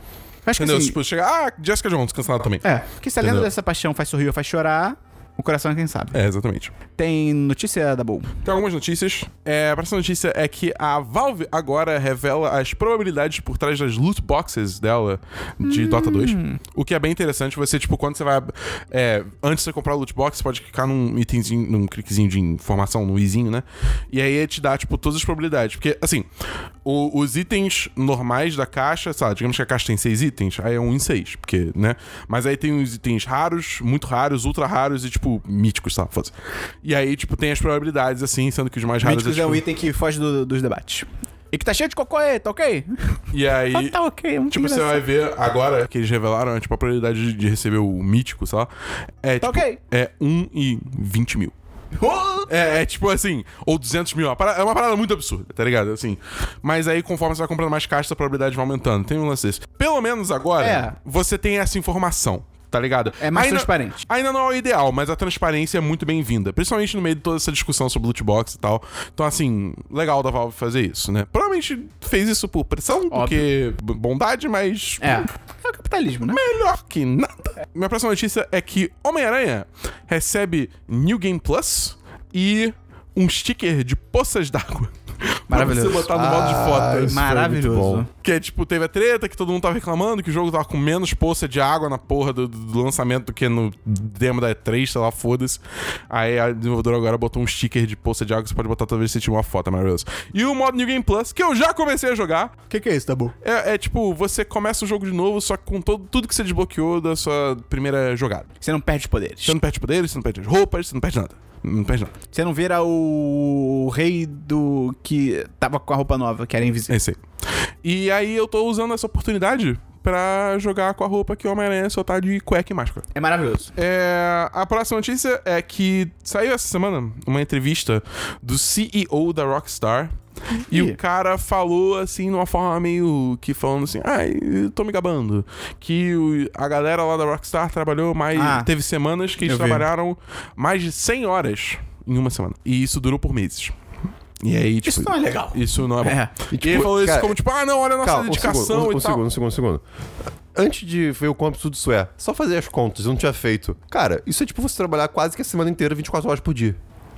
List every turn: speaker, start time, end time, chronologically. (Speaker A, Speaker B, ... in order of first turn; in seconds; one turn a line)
Speaker A: 0.5-0.9
Speaker B: 0.6-2.6
Speaker A: 2.6-6.2
Speaker B: 3.2-3.5
Speaker B: 6.1-6.7
Speaker A: 7.0-8.3
Speaker B: 8.4-26.3
Speaker A: 15.6-16.6
Speaker B: 26.9-39.6
Speaker A: 39.0-43.2
Speaker B: 43.3-44.0
Speaker A: 43.7-45.0
Speaker B: 44.5-48.7
Speaker B: 49.2-51.5
Speaker A: 49.4-49.8
Speaker A: 52.0-52.5
Speaker B: 52.5-75.3
Speaker A: 60.6-61.0
Speaker A: 63.2-64.0
Speaker A: 73.1-73.5
Speaker A: 75.0-76.4
Speaker B: 76.3-87.2
Speaker A: 85.5-86.1
Speaker C: 86.1-88.0
Speaker A: 87.0-88.1
Speaker B: 88.2-102.6
Speaker A: 102.7-103.3
Speaker B: 103.4-108.5
Speaker A: 108.6-109.5
Speaker B: 109.5-112.1
Speaker A: 112.3-117.0
Speaker B: 116.9-117.2
Speaker B: 117.8-123.1
Speaker A: 123.1-123.7
Speaker B: 123.8-130.1
Speaker B: 130.7-143.7
Speaker A: 130.7-131.0
Speaker A: 138.3-138.7
Speaker A: 139.4-139.9
Speaker B: 144.4-149.2
Speaker A: 144.8-146.3
Speaker C: 146.5-147.4
Speaker C: 148.0-149.8
Speaker C: 150.5-156.8